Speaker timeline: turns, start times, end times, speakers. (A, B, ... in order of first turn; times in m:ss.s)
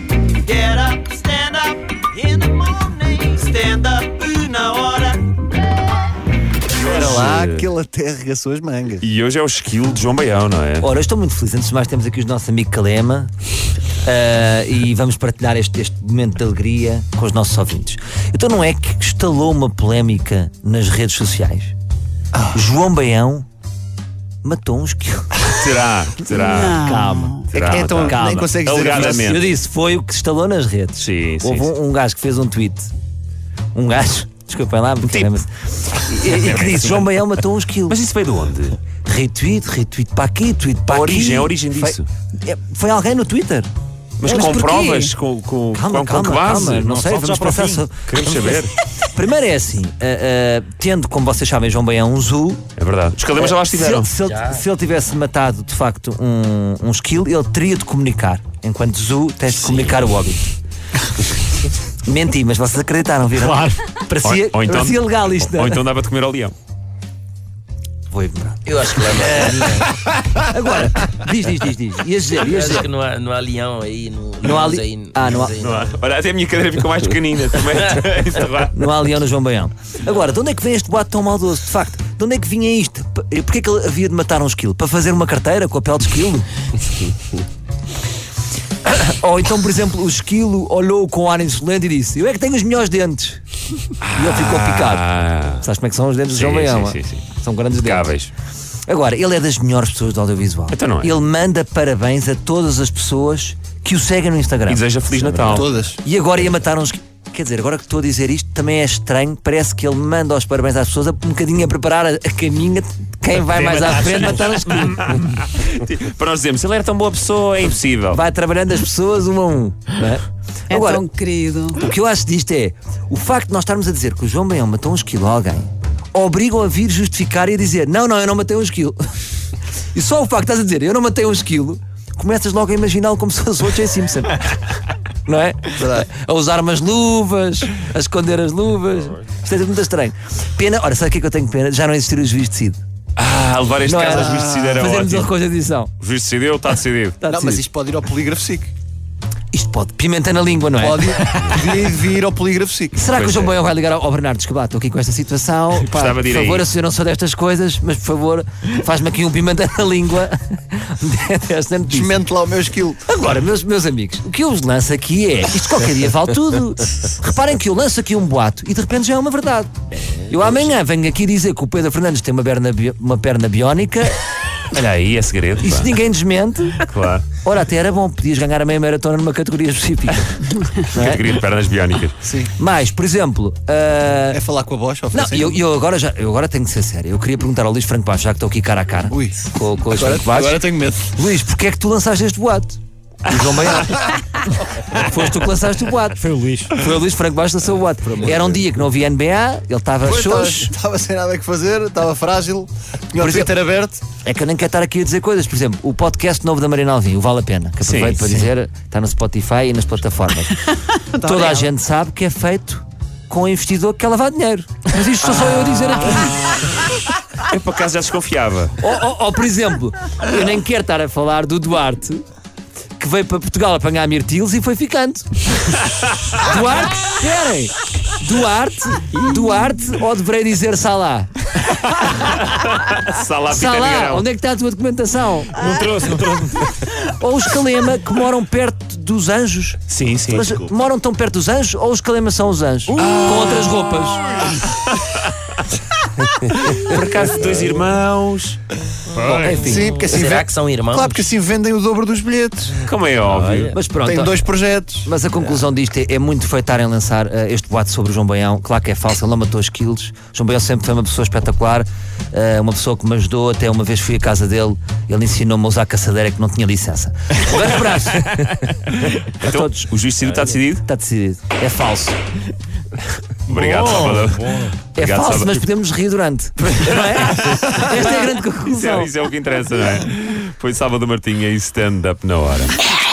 0:00.4-0:05.3 A
0:06.7-0:07.7 B
0:06.8-0:09.1 C
0:09.0-0:10.9 B
0:10.8-0:13.3 D
0:14.0-0:21.7 D
0:22.3-0:22.6 C
0:22.5-0:23.5 D
0:24.4-0:25.3 D
0:25.5-0:26.8 B
0:26.3-0:27.5 A
0:26.6-0:32.9 D
0:27.5-0:29.5 B
0:27.5-0:29.3 C
0:31.0-0:31.7 B
0:33.7-0:38.0 D
0:35.0-0:35.3 B
0:36.1-0:37.0 B
0:37.9-0:38.8 B
0:39.0-0:43.7 D
0:40.9-0:42.1 B
0:44.2-0:48.7 B
0:44.2-0:45.2 A
0:45.7-0:52.6 D
0:52.8-0:54.1 B
0:53.4-1:00.4 D
0:54.3-0:54.6 E
1:02.0-1:05.8 D
1:04.2-1:06.6 B
1:08.1-1:12.9 D
1:08.7-1:10.0 E
1:12.4-1:16.0 E
1:14.4-1:15.6 D
1:15.6-1:18.9 B
1:18.7-1:26.5 D
1:28.8-1:33.4 D
1:34.0-1:35.6 B
1:34.1-1:35.0 D
1:35.6-1:38.2 D
1:36.3-1:37.3 B
1:37.8-1:38.3 B
1:38.9-1:44.8 D
1:40.7-1:41.2 B
1:44.7-1:45.7 B
1:45.4-1:55.1 D
1:45.5-1:46.0 C
1:53.5-1:58.2 B
1:58.1-2:01.1 D
2:00.7-2:01.8 A
2:01.7-2:09.0 D
2:09.9-2:14.6 D
2:15.2-2:22.8 D
2:15.7-2:16.1 C
2:23.2-2:25.3 B
2:23.8-2:25.9 D
2:24.0-2:24.8 C
2:26.0-2:27.2 B
2:27.2-2:27.6 D
2:27.3-2:28.7 C
2:29.5-2:31.7 D
2:30.7-2:33.0 C
2:33.0-2:42.2 D
2:33.1-2:33.6 B
2:35.8-2:36.7 B
2:41.9-2:43.0 C
2:43.1-2:49.7 D
2:50.3-2:54.2 D
2:54.6-2:56.0 B
2:55.6-2:56.8 D
2:56.8-2:57.3 B
2:57.4-3:01.2 D
3:00.8-3:02.2 B
3:02.2-3:02.5 C
3:02.6-3:04.4 D
3:04.3-3:05.6 C
3:05.1-3:12.8 D
3:09.1-3:11.2 C
3:13.3-3:14.1 C
3:13.4-3:13.7 B
3:13.5-3:14.0 D
3:14.8-3:20.7 D
3:16.2-3:16.7 B
3:18.2-3:18.5 C
3:20.0-3:24.0 C
3:23.2-3:23.5 D
3:24.2-3:36.4 D
3:27.8-3:28.4 B
3:35.3-3:38.8 B
3:38.8-3:42.2 D
3:43.0-3:45.3 D
3:46.4-3:51.5 D
3:51.7-3:54.3 B
3:53.5-3:55.7 D
3:55.6-3:56.9 B
3:57.0-4:04.2 D
3:59.9-4:00.6 B
4:03.0-4:03.7 B
4:04.9-4:05.5 B
4:06.6-4:08.6 B
4:09.1-4:09.6 B
4:09.2-4:12.8 C
4:09.3-4:10.0 D
4:10.0-4:11.3 E
4:12.8-4:13.8 B
4:13.2-4:13.8 E
4:13.7-4:14.4 D
4:14.0-4:15.1 C
4:15.0-4:30.0 D
4:28.4-4:30.8 B
4:30.8-4:32.2 D
4:33.5-4:35.7 B
4:33.6-4:34.7 E
4:35.0-4:39.1 D
4:36.7-4:42.9 B